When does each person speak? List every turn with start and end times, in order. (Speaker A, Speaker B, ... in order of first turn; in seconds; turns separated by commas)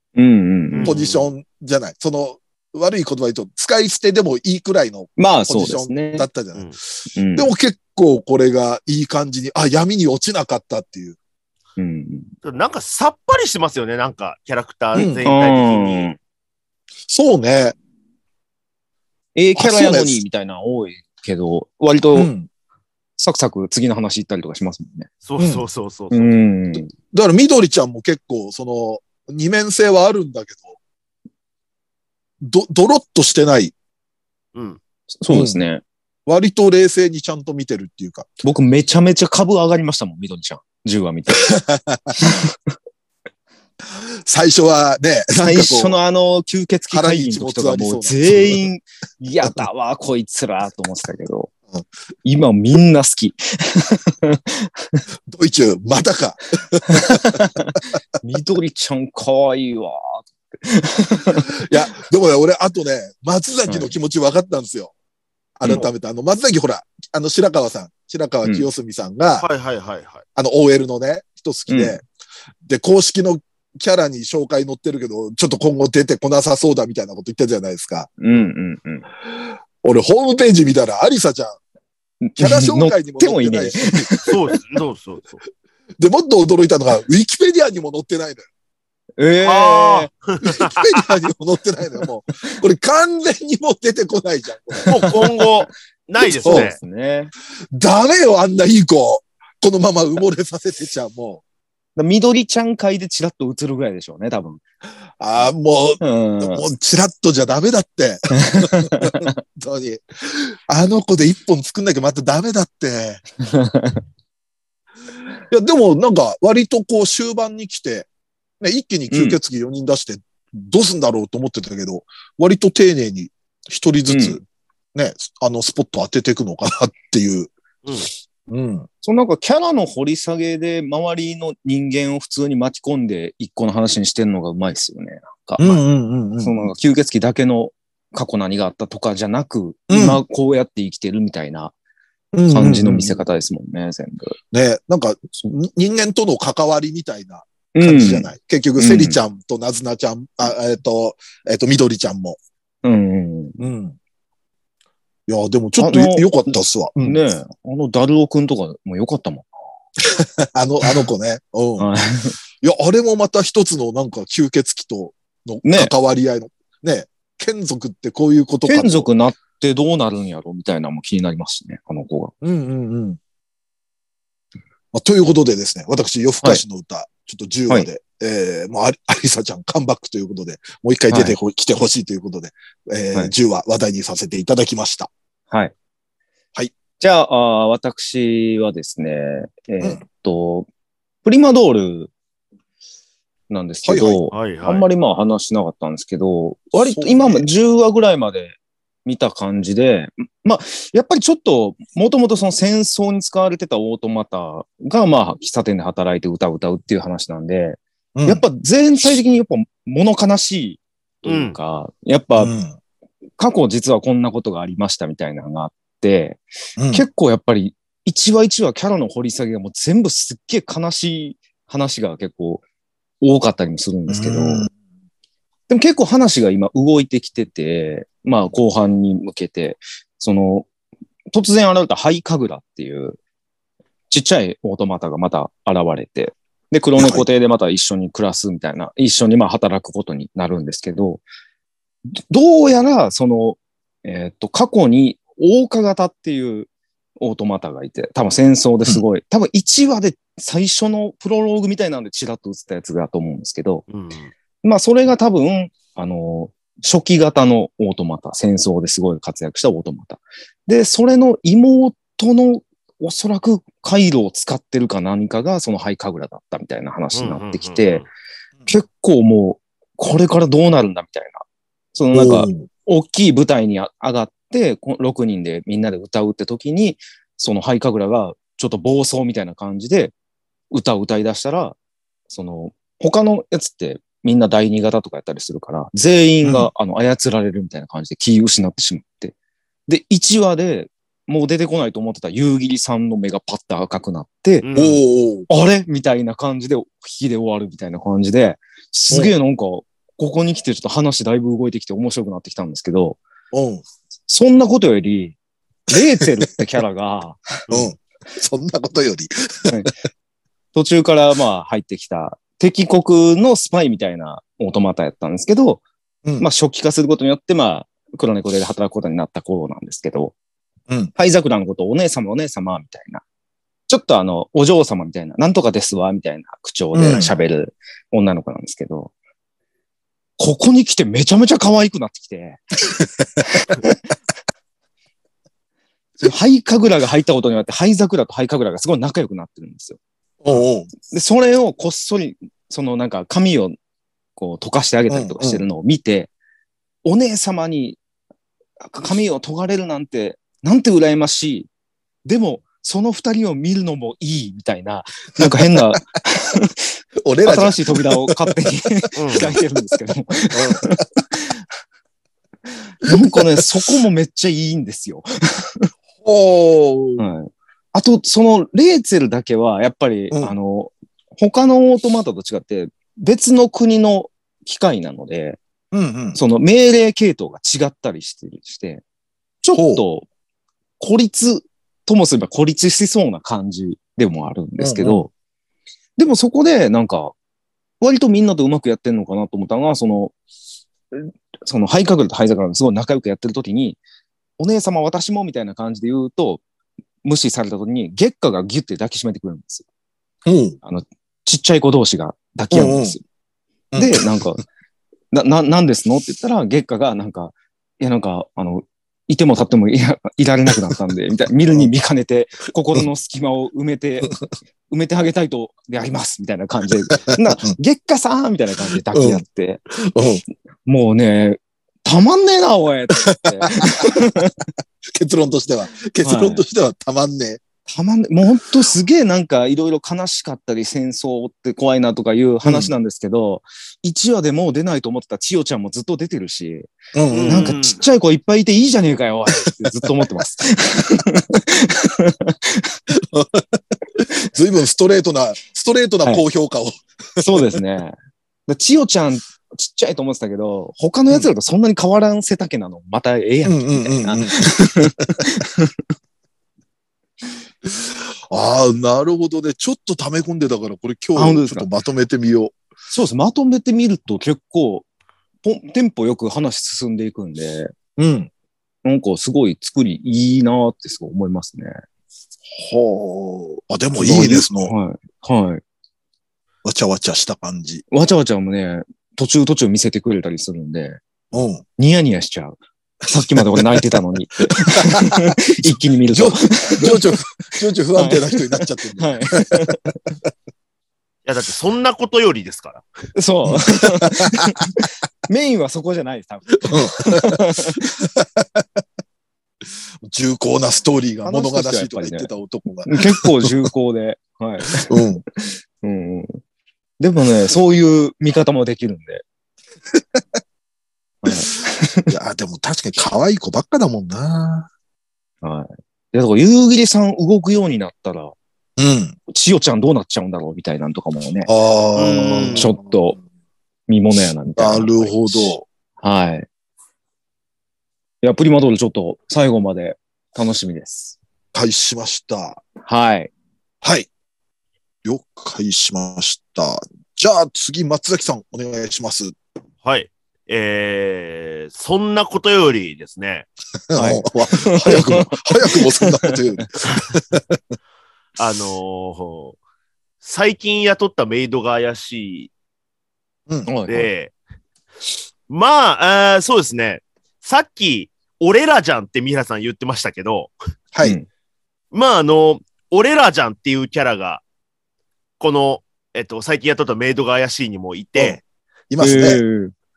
Speaker A: 0.1-0.9, Speaker B: 0.7-1.3, Speaker C: 0.8-6.7, Speaker A: 5.2-6.3, Speaker A: 7.1-7.5, Speaker C: 7.3-11.2, Speaker A: 11.8-12.3, Speaker B: 12.4-16.1, Speaker C: 14.9-15.2, Speaker A: 15.2-16.1, Speaker C: 17.1-17.7, Speaker A: 19.3-22.3, Speaker C: 19.6-20.2, Speaker C: 22.1-22.5, Speaker A: 23.2-25.1, Speaker B: 25.2-26.3, Speaker C: 25.4-25.6, Speaker A: 26.1-26.9, Speaker C: 27.1-30.8, Speaker C: 32.4-33.7, Speaker B: 34.5-34.8, Speaker A: 35.2-35.8, Speaker C: 35.3-35.6, Speaker C: 36.2-38.3, Speaker A: 38.4-41.5, Speaker C: 41.5-42.1, Speaker A: 42.2-42.7, Speaker C: 44.2-46.0, Speaker A: 45.4-51.5, Speaker C: 46.9-48.7, Speaker A: 52.2-55.0, Speaker C: 55.3-57.4, Speaker A: 56.9-61.5, Speaker C: 61.6-64.9, Speaker A: 63.7-63.9, Speaker C: 65.6-69.5, Speaker B: 69.4-70.2, Speaker C: 70.3-72.0, Speaker A: 71.7-72.0, Speaker C: 72.6-78.1, Speaker A: 78.2-79.1, Speaker C: 79.8-81.6, Speaker A: 82.2-84.5, Speaker C: 82.4-84.3, Speaker B: 84.3-85.4, Speaker C: 86.0-88.4, Speaker A: 89.2-90.1, Speaker B: 89.4-91.0, Speaker C: 90.4-95.2, Speaker B: 94.9-96.8, Speaker A: 96.2-97.3, Speaker C: 96.4-96.7, Speaker C: 97.7-101.4, Speaker A: 102.0-104.6, Speaker C: 105.2-113.2, Speaker A: 106.0-106.6, Speaker A: 108.4-109.3, Speaker A: 113.4-114.0, Speaker C: 115.5-118.1, Speaker C: 118.6-124.4, Speaker A: 119.1-119.4, Speaker A: 124.1-124.4, Speaker C: 124.9-127.5, Speaker C: 128.5-128.9, Speaker A: 129.0-135.8, Speaker C: 135.6-136.5, Speaker A: 136.4-141.7, Speaker C: 139.9-140.2, Speaker C: 142.3-143.2, Speaker A: 142.5-144.3, Speaker C: 144.5-152.4, Speaker A: 147.7-149.2, Speaker A: 152.8-153.6, Speaker C: 153.6-154.0, Speaker C: 155.3-157.2, Speaker A: 155.8-159.5, Speaker C: 160.0-161.9, Speaker A: 161.8-162.4, Speaker C: 162.6-169.1, Speaker A: 165.6-165.9, Speaker A: 168.6-172.3, Speaker C: 172.4-173.2, Speaker C: 174.9-185.1, Speaker A: 181.1-181.4, Speaker A: 187.0-190.7, Speaker A: 191.2-192.1, Speaker A: 193.5-212.5, Speaker C: 193.8-194.2, Speaker B: 194.3-194.8, Speaker C: 196.7-197.4, Speaker C: 208.1-208.4, Speaker B: 211.2-211.5, Speaker C: 212.4-212.7, Speaker A: 213.4-222.6, Speaker C: 216.8-217.0, Speaker A: 223.2-224.7, Speaker C: 224.1-224.7, Speaker A: 225.7-230.7, Speaker A: 231.3-233.2, Speaker A: 234.1-241.2, Speaker C: 237.0-237.2, Speaker A: 242.3-253.8, Speaker B: 253.9-254.3, Speaker A: 254.6-268.1, Speaker B: 267.1-268.1, Speaker A: 268.6-271.4, Speaker A: 271.9-280.1, Speaker C: 272.1-272.7, Speaker A: 280.7-281.8, Speaker A: 282.3-289.3, Speaker C: 286.4-286.7, Speaker A: 289.9-294.6, Speaker B: 294.6-295.0, Speaker C: 294.7-295.5, Speaker A: 295.5-303.2, Speaker C: 303.5-303.8, Speaker A: 304.3-305.4, Speaker A: 305.9-307.7, Speaker C: 306.2-306.5, Speaker C: 307.7-309.9, Speaker A: 310.7-315.8, Speaker A: 316.4-320.3, Speaker A: 321.1-323.2, Speaker A: 323.9-329.1, Speaker C: 326.9-327.3, Speaker A: 330.4-332.6, Speaker A: 333.4-334.0, Speaker A: 336.2-340.0, Speaker C: 340.4-340.9, Speaker A: 341.1-343.8, Speaker A: 344.4-346.3, Speaker C: 345.1-345.6, Speaker A: 347.0-348.0, Speaker A: 348.8-351.7, Speaker A: 352.2-361.6, Speaker C: 357.2-358.5, Speaker B: 359.2-359.5, Speaker C: 360.5-361.0, Speaker A: 363.0-365.9, Speaker C: 363.1-363.6, Speaker C: 366.2-367.2, Speaker A: 367.2-375.6, Speaker C: 375.9-376.4, Speaker A: 376.3-379.0, Speaker A: 379.6-380.3, Speaker C: 379.7-380.0, Speaker A: 381.0-385.3, Speaker C: 384.8-385.3, Speaker A: 386.2-387.3, Speaker A: 388.0-390.3, Speaker A: 391.1-394.0, Speaker A: 394.6-396.6, Speaker A: 397.2-399.8, Speaker C: 400.4-400.8, Speaker A: 400.8-403.2, Speaker C: 402.7-403.1, Speaker C: 403.9-404.2, Speaker A: 403.9-404.6, Speaker A: 405.3-414.3, Speaker A: 414.9-419.8, Speaker C: 417.3-417.7, Speaker C: 419.1-419.4, Speaker C: 420.0-420.4, Speaker A: 420.9-424.6, Speaker C: 423.2-424.2, Speaker C: 425.1-427.6, Speaker A: 426.2-426.6, Speaker A: 427.9-436.9, Speaker C: 432.6-432.9, Speaker C: 437.1-437.7, Speaker B: 437.3-438.0, Speaker A: 437.5-442.9, Speaker C: 443.3-447.6, Speaker A: 447.4-448.1, Speaker A: 448.7-455.9, Speaker C: 453.6-455.3, Speaker C: 457.9-462.7, Speaker A: 461.4-461.9, Speaker A: 463.1-465.1, Speaker A: 465.6-467.9, Speaker C: 468.2-468.5, Speaker A: 469.0-471.9, Speaker C: 472.7-474.9, Speaker A: 474.1-475.8, Speaker C: 476.8-478.0, Speaker A: 478.1-481.2, Speaker C: 481.5-481.8, Speaker A: 482.0-487.2, Speaker C: 483.5-484.0, Speaker C: 484.8-489.9, Speaker A: 488.1-490.2, Speaker B: 491.4-493.0, Speaker A: 493.3-498.0, Speaker C: 493.6-494.7, Speaker C: 496.9-499.0, Speaker C: 500.2-503.9, Speaker A: 501.4-502.5, Speaker A: 503.1-506.6, Speaker C: 504.9-505.4, Speaker A: 507.2-509.4, Speaker C: 510.1-510.4, Speaker A: 511.4-512.3, Speaker C: 512.3-514.9, Speaker A: 515.6-518.5, Speaker C: 519.0-519.4, Speaker A: 519.5-521.7, Speaker C: 521.7-523.0, Speaker B: 522.1-522.9, Speaker A: 522.6-523.4, Speaker A: 524.1-526.7, Speaker C: 524.8-525.8, Speaker A: 528.4-531.4, Speaker C: 531.7-532.8, Speaker A: 533.0-533.5, Speaker C: 534.0-534.3, Speaker C: 535.2-539.5, Speaker B: 540.0-543.7, Speaker C: 544.1-547.8, Speaker A: 544.1-547.2, Speaker B: 548.6-549.8, Speaker B: 550.4-552.7, Speaker A: 553.9-554.3, Speaker B: 554.1-554.5, Speaker B: 555.7-560.7, Speaker C: 561.1-561.4, Speaker B: 562.1-564.6, Speaker B: 565.6-568.6, Speaker C: 569.1-569.6, Speaker A: 569.2-569.9